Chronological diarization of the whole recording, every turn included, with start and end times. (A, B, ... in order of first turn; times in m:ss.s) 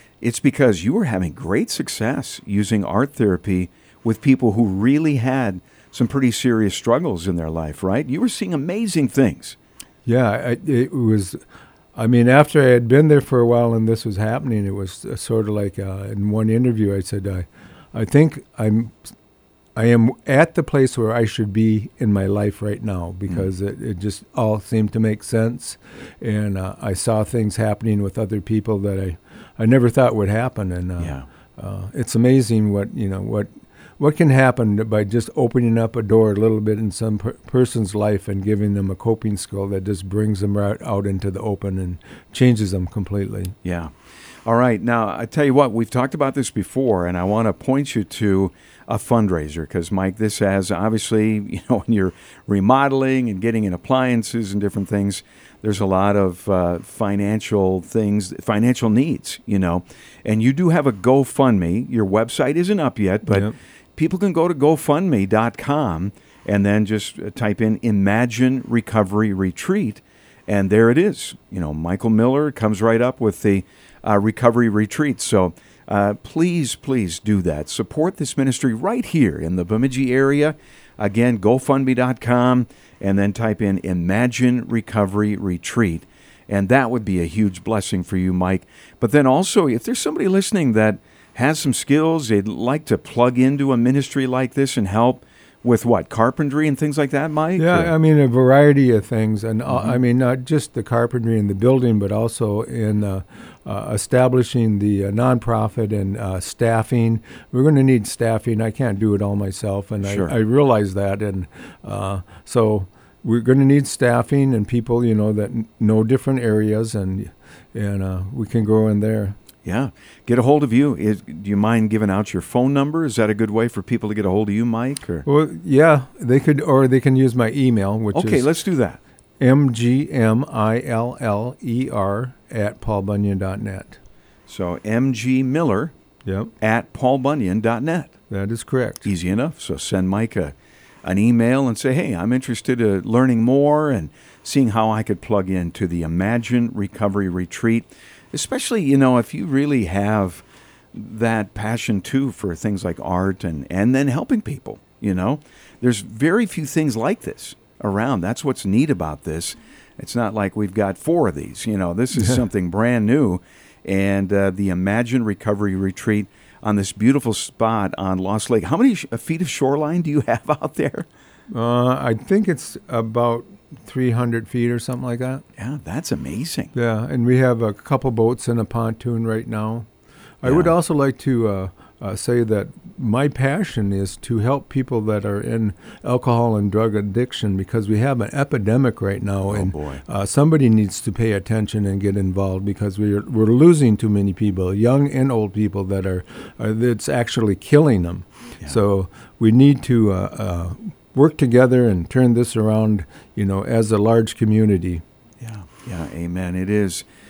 0:00.2-0:09.6 A
0:10.0-0:11.4 B
0:11.9-0:19.0 B
0:19.7-0:43.5 B
0:31.0-0:31.2 A
0:43.6-0:43.9 A
0:44.4-1:37.9 A
1:03.3-1:03.5 B
1:37.6-1:59.4 B
1:39.7-1:40.0 A
1:50.0-1:50.3 A
1:59.6-2:05.2 A
2:05.2-2:08.5 B
2:08.1-2:09.0 A
2:09.4-2:14.0 B
2:14.5-2:15.9 A
2:16.2-2:16.5 B
2:16.6-2:18.1 A
2:18.3-2:19.0 B
2:19.0-2:51.1 A
2:51.5-2:55.4 B
2:55.6-2:56.7 A
2:56.7-2:59.8 B
3:00.4-3:25.0 B
3:00.4-3:00.7 A
3:09.5-3:10.0 A
3:25.4-3:27.0 A